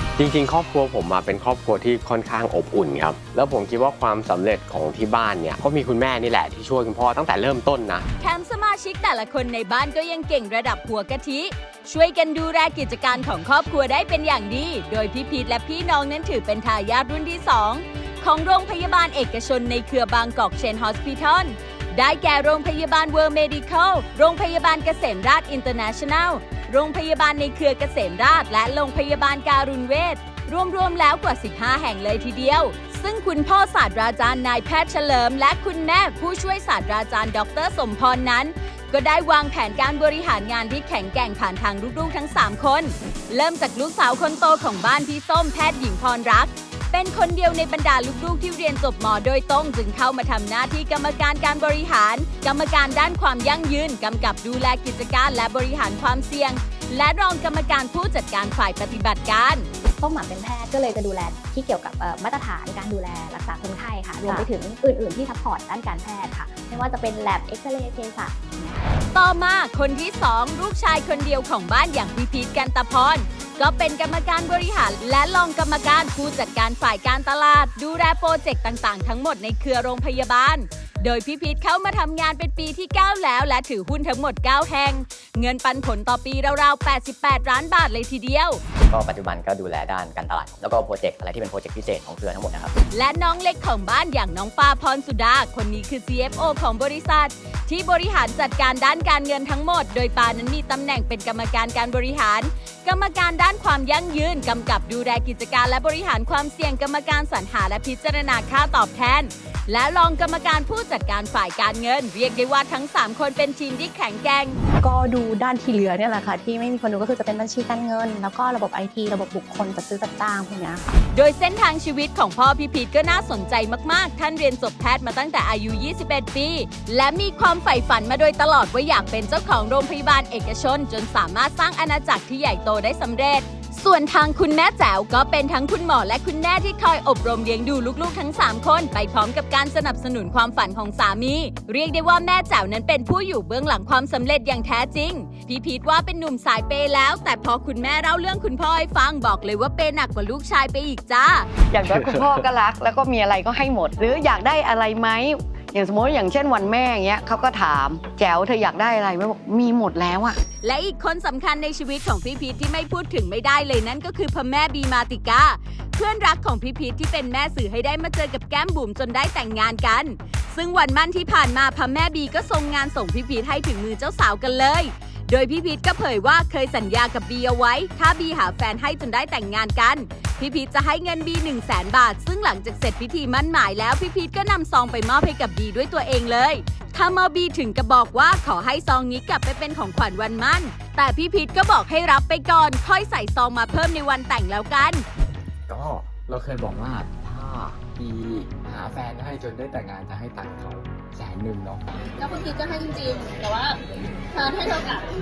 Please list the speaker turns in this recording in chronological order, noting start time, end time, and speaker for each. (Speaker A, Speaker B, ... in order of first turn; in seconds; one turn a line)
Speaker A: 0.2-8.1
Speaker B: 8.2-59.7
Speaker C: 60.0-68.8
Speaker B: 69.1-88.6
Speaker D: 88.9-92.7
Speaker B: 92.9-114.6
Speaker E: 114.8-120.8
Speaker B: 121.1-151.5
Speaker F: 151.7-160.4
Speaker B: 160.6-195.1
Speaker G: 195.7-201.8
Speaker H: 202.2-203.8
Speaker H: 204.3-205.1